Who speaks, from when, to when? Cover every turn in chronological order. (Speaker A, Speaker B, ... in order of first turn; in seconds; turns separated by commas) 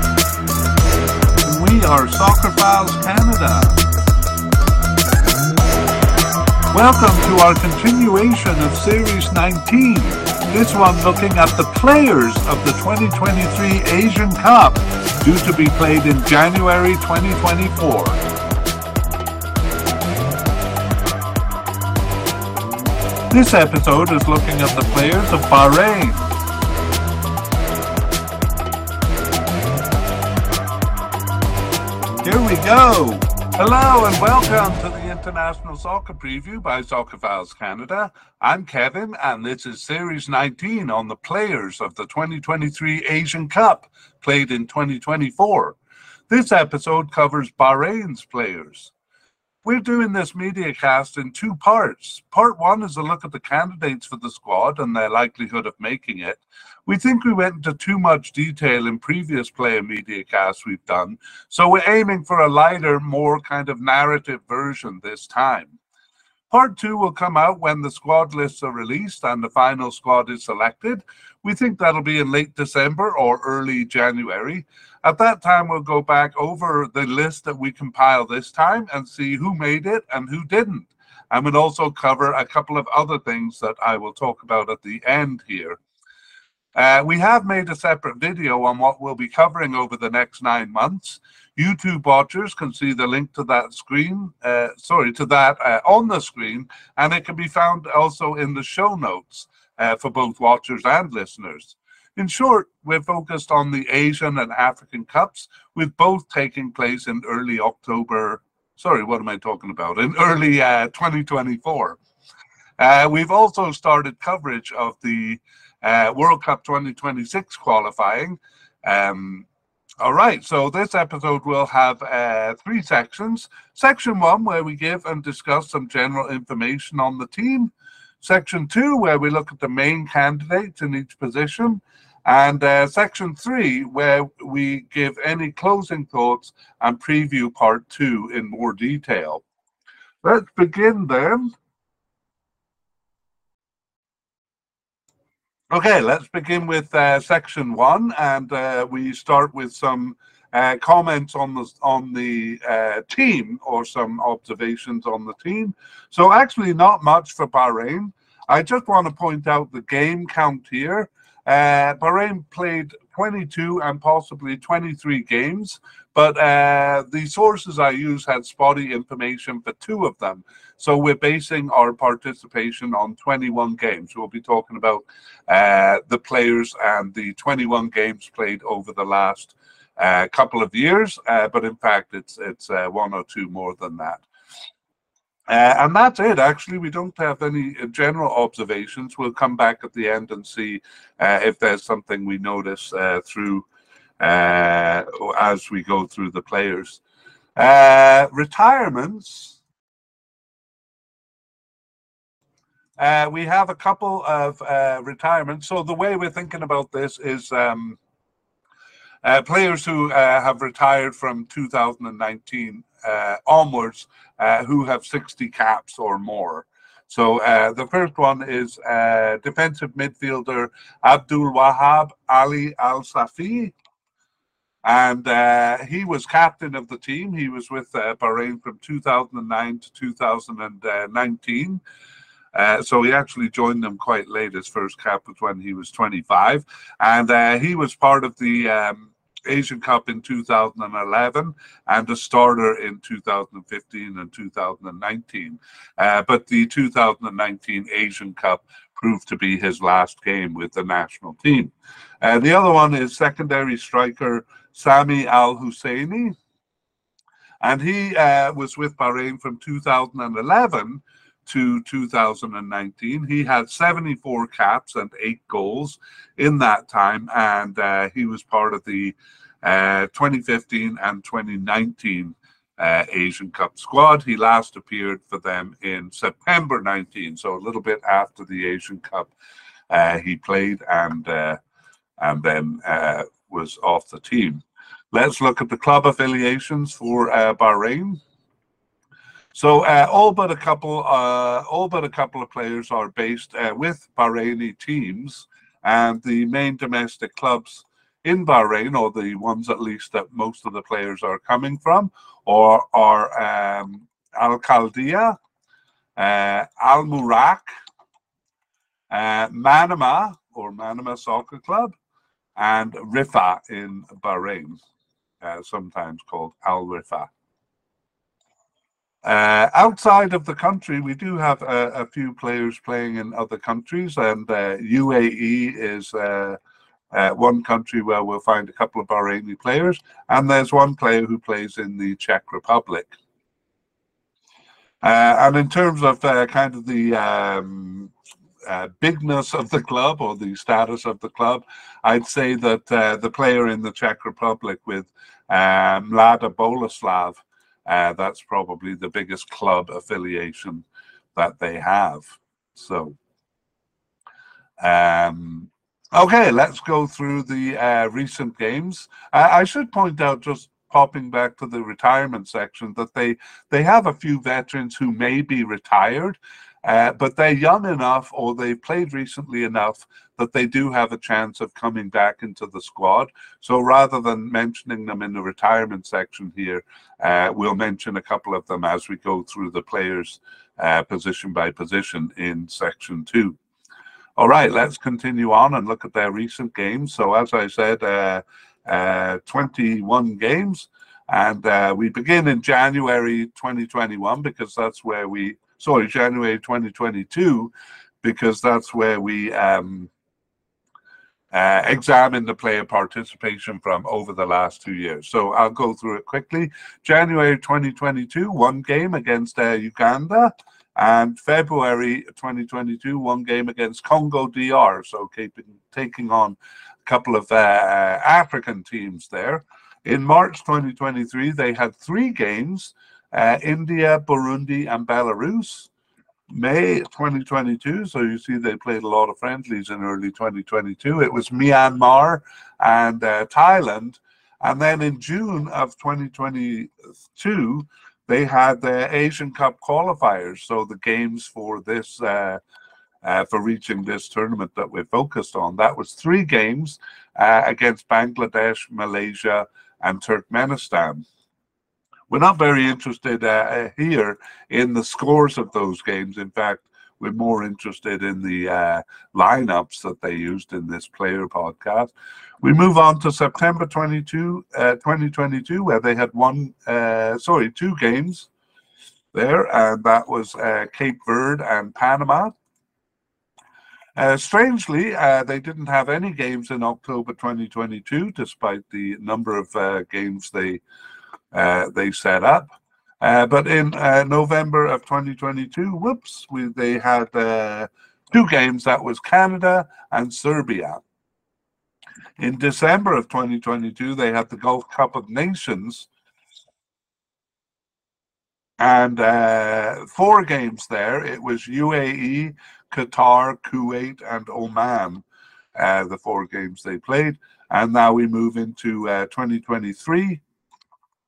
Speaker A: 1.4-3.8, Speaker A: 6.7-18.2, Speaker A: 23.3-26.3, Speaker A: 32.2-45.8, Speaker A: 46.3-48.9, Speaker A: 49.6-65.8, Speaker A: 66.5-85.8, Speaker A: 86.7-112.0, Speaker A: 112.8-119.5, Speaker A: 120.0-139.4, Speaker A: 140.2-141.5, Speaker A: 145.7-184.2, Speaker A: 185.5-193.7, Speaker A: 194.2-197.0, Speaker A: 197.6-199.6, Speaker A: 203.0-208.0, Speaker A: 209.2-223.7, Speaker A: 224.8-231.8, Speaker A: 232.5-256.3, Speaker A: 257.6-279.3, Speaker A: 279.9-281.6, Speaker A: 282.2-288.2, Speaker A: 289.5-305.4, Speaker A: 306.1-307.7, Speaker A: 309.1-311.9, Speaker A: 312.6-314.8, Speaker A: 315.4-317.3, Speaker A: 319.2-326.6, Speaker A: 327.1-333.1, Speaker A: 335.0-338.1, Speaker A: 338.6-353.2, Speaker A: 354.8-383.6, Speaker A: 384.4-400.1, Speaker A: 401.5-425.9, Speaker A: 426.5-442.6, Speaker A: 443.2-451.2, Speaker A: 452.3-468.5, Speaker A: 469.3-472.5, Speaker A: 474.1-480.8, Speaker A: 481.5-491.0, Speaker A: 492.4-496.1, Speaker A: 498.8-505.2, Speaker A: 505.8-510.4